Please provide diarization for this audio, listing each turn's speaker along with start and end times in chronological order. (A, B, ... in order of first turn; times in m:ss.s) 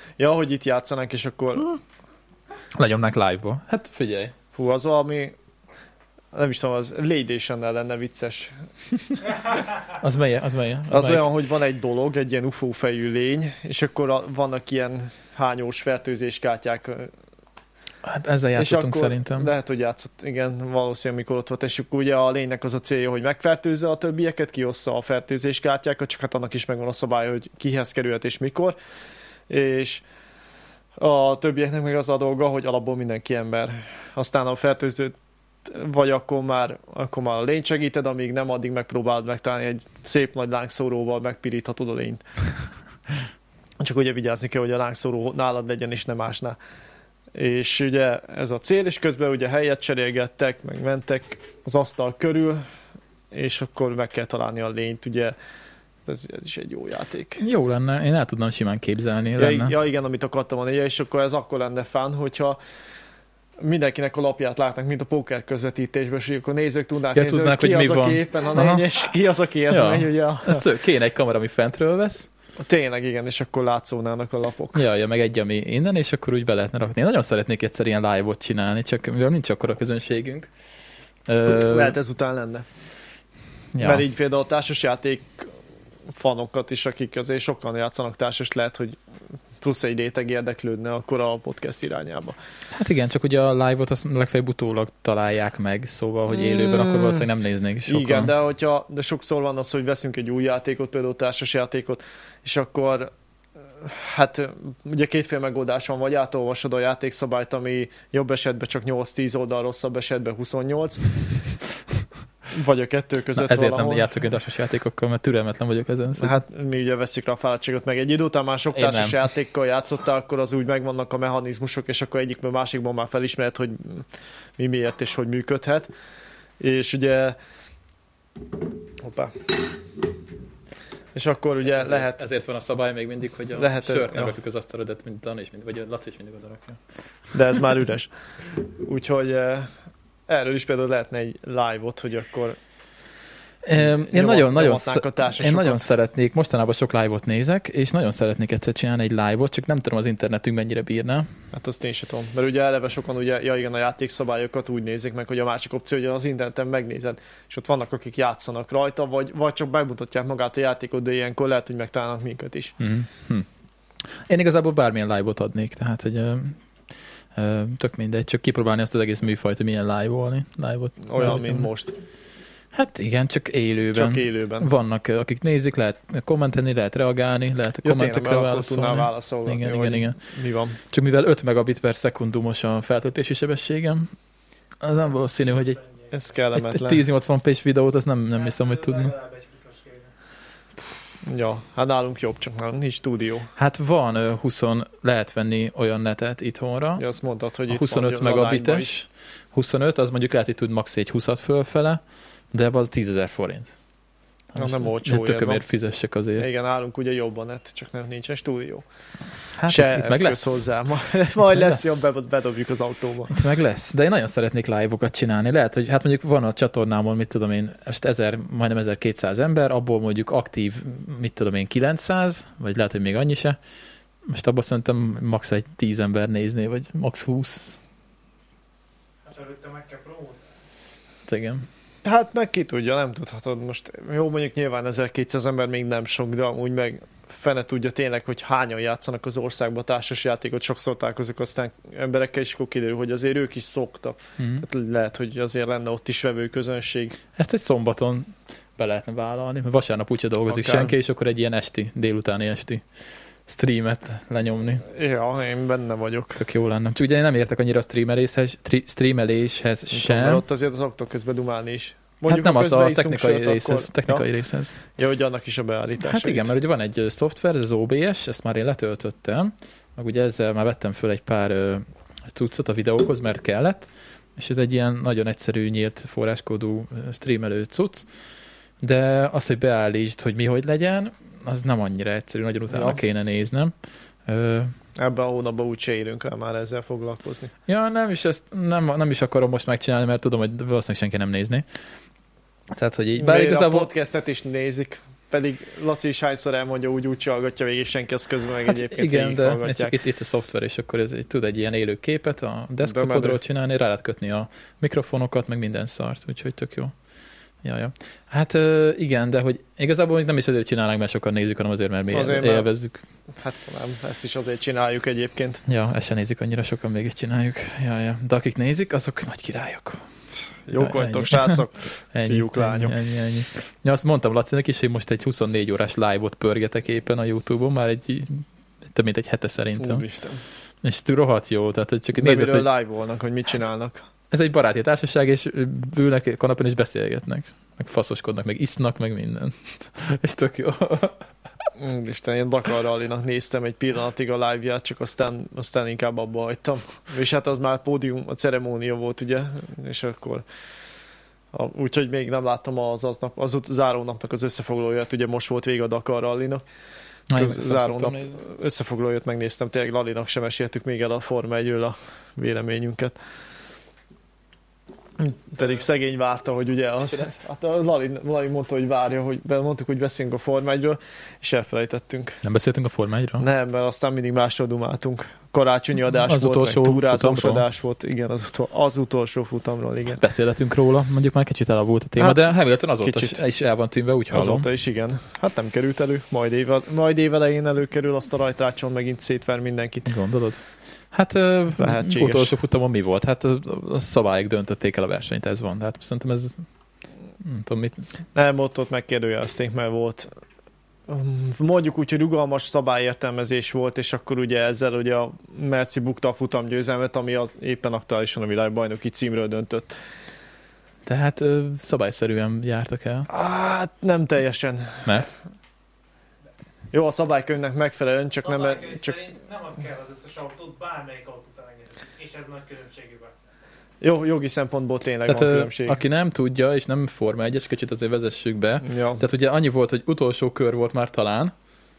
0:00.2-0:01.8 A
0:02.7-0:04.3 B
0:04.5-0:05.4 A
0:06.3-0:08.6 A
0:09.9-0:11.2 B
0:10.9-0:17.1 A
0:18.0-0:19.5 B
0:18.6-0:28.8 A
0:29.5-0:30.0 A
0:31.0-0:42.2 A
0:43.8-0:46.6 A
0:47.4-0:52.6 A
0:53.3-0:55.4 A
0:56.1-0:57.4 A
0:57.4-0:59.7 B
0:59.4-1:02.6 A
1:03.6-1:10.7 A
1:07.2-1:08.9 B
1:09.7-1:12.3 B
1:12.6-1:14.8 A
1:14.8-1:20.5 B
1:21.3-1:22.0 B
1:21.5-1:22.6 A
1:23.7-1:24.0 B
1:23.8-1:25.5 A
1:26.2-1:29.0 A
1:29.6-1:32.4 A
1:32.7-1:38.3 B
1:36.4-1:37.3 A
1:37.9-1:43.1 A
1:43.8-1:51.1 A
1:52.5-1:54.1 A
1:53.4-1:56.4 B
1:56.2-2:04.0 A
1:58.7-1:59.2 B
2:04.6-2:05.9 A
2:06.6-2:07.4 A
2:09.0-2:09.3 A
2:11.2-2:12.3 A
2:11.6-2:16.8 B
2:13.5-2:14.4 A
2:17.3-2:18.1 A
2:18.8-2:19.7 A
2:20.3-2:22.6 A
2:23.6-2:31.3 B
2:23.8-2:25.9 A
2:31.5-2:42.8 A
2:42.8-2:43.5 B
2:44.1-2:46.6 B
2:47.4-2:51.7 B
2:51.0-2:52.0 A
2:52.7-3:00.2 B
2:53.9-2:54.7 A
2:57.8-3:00.8 A
3:00.9-3:04.1 B
3:04.8-3:05.8 B
3:05.2-3:06.2 C
3:06.1-3:07.0 A
3:06.5-3:09.1 B
3:08.3-3:10.1 C
3:11.2-3:13.5 A
3:13.6-3:17.0 B
3:17.0-3:19.0 A
3:17.7-3:23.7 B
3:24.5-3:26.5 B
3:24.6-3:25.6 A
3:26.4-3:28.8 A
3:29.6-3:30.6 B
3:29.7-3:33.4 A
3:31.4-3:32.1 B
3:33.3-3:43.6 B
3:44.3-3:47.8 B
3:49.2-3:50.5 C
3:51.3-3:51.7 B
3:52.0-4:07.2 A
4:04.4-4:04.6 B
4:07.4-4:12.8 B
4:10.5-4:10.9 A
4:13.5-4:14.8 B
4:14.9-4:16.4 A
4:16.4-4:20.4 B
4:19.9-4:24.3 A
4:22.3-4:24.7 B
4:24.8-4:26.5 A
4:26.0-4:38.1 B
4:38.8-4:43.7 B
4:42.7-4:43.0 A
4:44.3-4:44.7 B
4:45.0-4:47.5 A
4:47.7-4:51.6 B
4:52.7-4:53.9 B
4:53.2-5:00.0 A
4:58.6-5:06.9 B
5:02.8-5:03.4 A
5:07.6-5:13.0 B
5:12.1-5:12.7 A
5:13.4-5:15.6 A
5:15.7-5:20.0 B
5:20.7-5:23.0 A
5:20.8-5:30.0 B
5:29.8-5:30.4 A
5:30.8-5:32.7 B
5:32.2-5:34.0 A
5:34.3-5:41.2 B
5:41.8-5:50.4 A
5:51.5-5:56.6 A
5:57.3-5:58.4 B
5:57.3-6:03.2 A
6:05.2-6:12.4 A
6:12.4-6:13.4 B
6:13.4-6:20.2 A
6:16.1-6:17.6 B
6:20.2-6:24.7 B
6:22.2-6:22.5 A
6:23.0-6:23.4 A
6:24.3-6:30.1 A
6:30.1-6:36.6 B
6:31.8-6:32.6 A
6:37.4-6:38.1 B
6:38.4-6:40.3 A
6:41.1-6:49.9 A
6:51.1-6:53.3 B
6:53.3-6:55.3 A
6:55.0-6:55.3 B
6:56.9-6:59.2 A
6:58.4-7:03.5 C
7:04.0-7:06.0 A
7:05.2-7:11.5 B
7:08.8-7:09.2 A